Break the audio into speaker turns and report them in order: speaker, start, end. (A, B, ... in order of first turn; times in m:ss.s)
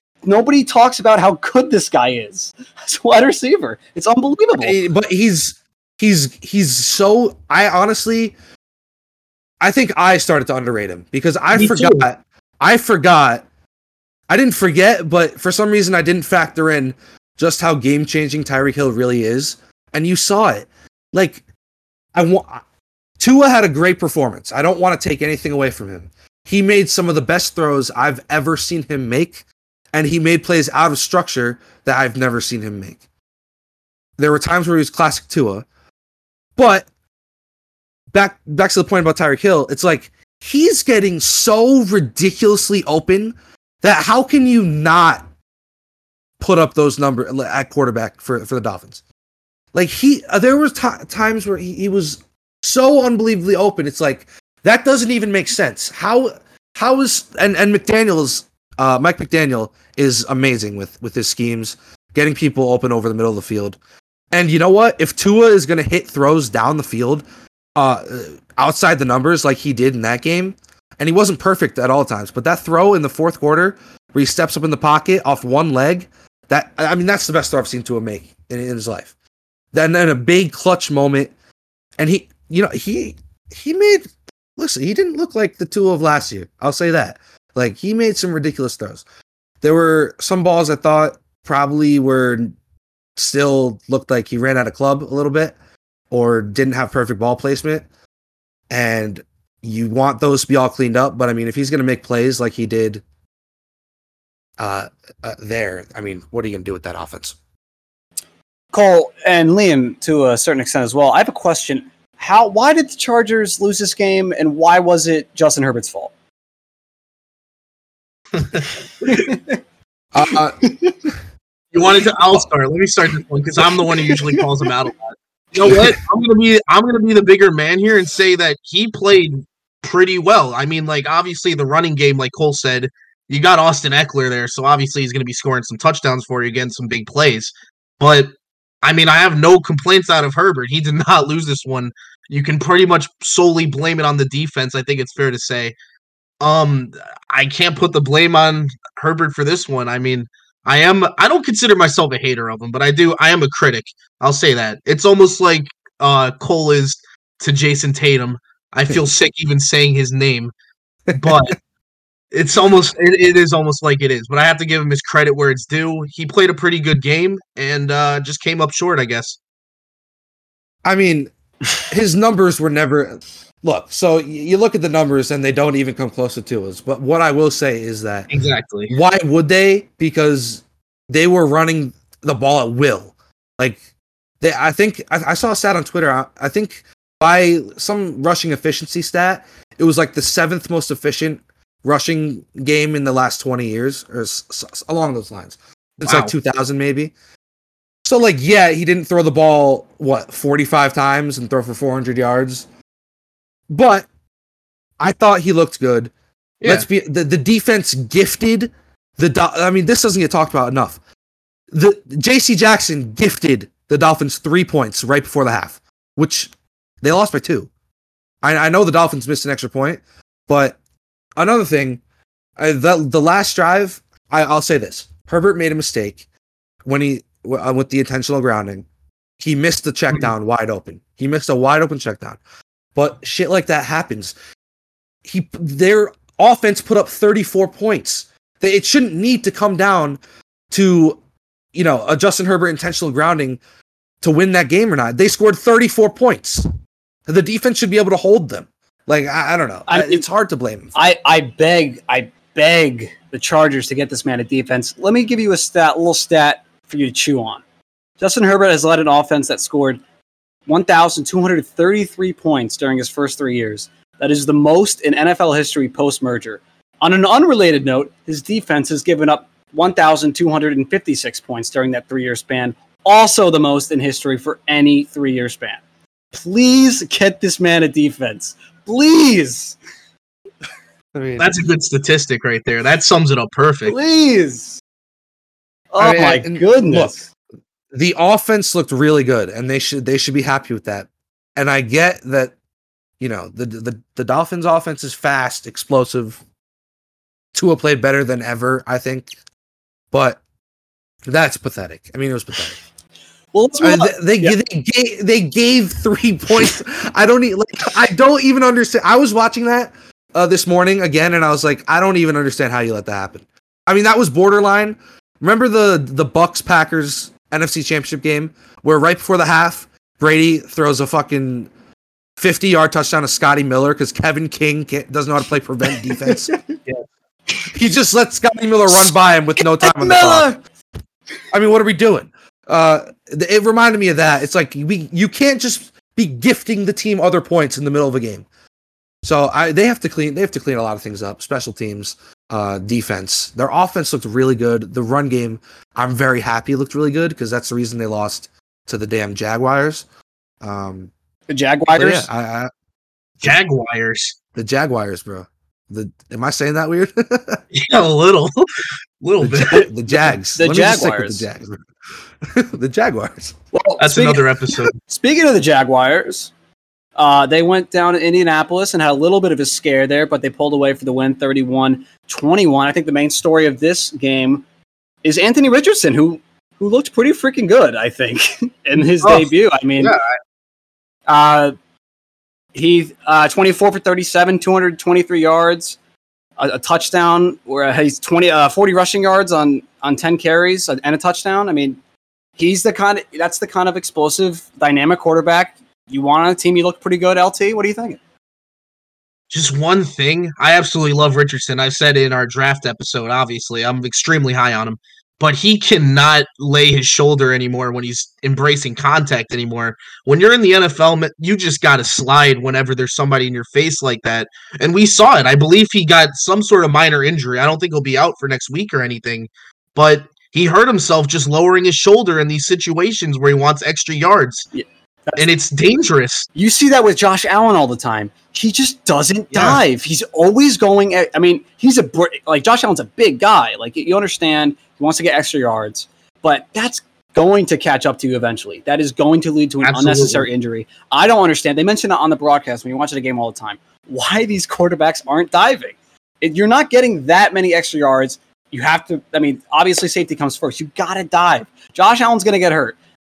0:00.2-0:04.8 A
0:04.6-0:08.4 B
0:09.6-0:13.4 B
0:11.5-0:12.0 C
0:14.3-0:21.4 B
0:22.1-0:22.6 B
0:23.2-0:29.4 B
0:29.9-0:33.0 B
0:34.2-0:35.6 B
0:36.6-0:36.9 B
0:38.1-0:45.3 B
0:46.4-0:49.0 B
0:49.7-1:03.8 B
1:04.3-1:07.2 B
1:07.8-1:19.1 B
1:19.7-1:21.3 B
1:22.0-1:29.0 B
1:29.6-1:32.6 B
1:33.2-1:35.6 B
1:36.1-1:37.9 B
1:38.7-1:43.0 B
1:44.6-1:47.4 B
1:48.7-1:56.1 A
1:58.4-1:59.2 C
1:59.0-1:59.6 A
2:00.1-2:01.1 B
2:00.6-2:01.0 A
2:01.7-2:18.3 C
2:03.9-2:04.4 A
2:05.7-2:05.9 B
2:18.8-2:25.7 C
2:26.4-2:40.5 C
2:41.1-2:41.5 B
2:41.1-2:41.6 C
2:42.3-2:49.4 C
2:50.8-2:58.3 B
2:58.3-2:58.9 C
2:58.9-3:03.8 B
3:04.4-3:17.1 B
3:16.1-3:16.3 C
3:18.0-3:22.6 B
3:23.7-3:24.1 B
3:25.0-3:26.1 B
3:26.6-3:26.9 C
3:26.6-3:31.0 B
3:31.7-3:36.5 B
3:37.0-3:37.7 B
3:38.4-3:40.8 B
3:41.4-3:42.0 B
3:42.6-3:46.2 B
3:46.8-3:48.9 B
3:49.4-3:52.4 B
3:52.9-3:54.3 B
3:55.2-4:00.2 B
4:00.7-4:01.2 B
4:01.7-4:03.6 B
4:04.2-4:06.6 B
4:07.3-4:11.0 B
4:09.9-4:10.2 A
4:10.9-4:17.6 A
4:18.2-4:20.0 A
4:20.7-4:35.8 A
4:36.3-4:39.8 A
4:41.1-4:41.5 B
4:41.4-4:44.0 C
4:43.9-4:44.8 A
4:45.9-4:47.2 A
4:46.0-4:47.2 B
4:47.9-4:52.5 B
4:53.2-4:56.4 B
4:57.5-4:59.3 B
5:00.1-5:00.4 B
5:01.3-5:02.8 B
5:03.5-5:04.6 A
5:03.8-5:21.7 B
5:22.4-5:26.6 B
5:26.0-5:26.6 A
5:27.7-5:30.6 B
5:29.6-5:30.6 A
5:31.5-5:38.4 B
5:39.2-5:50.0 B
5:50.6-5:51.1 B
5:51.5-5:52.3 A
5:52.0-5:52.7 B
5:53.4-5:54.4 C
5:54.5-5:57.6 B
5:57.7-5:58.7 C
5:59.2-5:59.9 C
5:59.4-6:01.8 B
6:00.6-6:01.4 A
6:02.4-6:03.6 B
6:03.7-6:04.4 A
6:04.0-6:04.9 C
6:05.0-6:06.5 A
6:07.2-6:14.6 A
6:15.2-6:20.1 A
6:19.2-6:20.2 C
6:21.3-6:21.7 A
6:22.7-6:26.0 A
6:26.6-6:32.0 A
6:32.6-6:38.2 A
6:39.5-7:04.7 C
7:04.7-7:05.5 A
7:05.4-7:06.5 C
7:06.6-7:33.0 A
7:09.5-7:09.8 C
7:19.8-7:20.5 C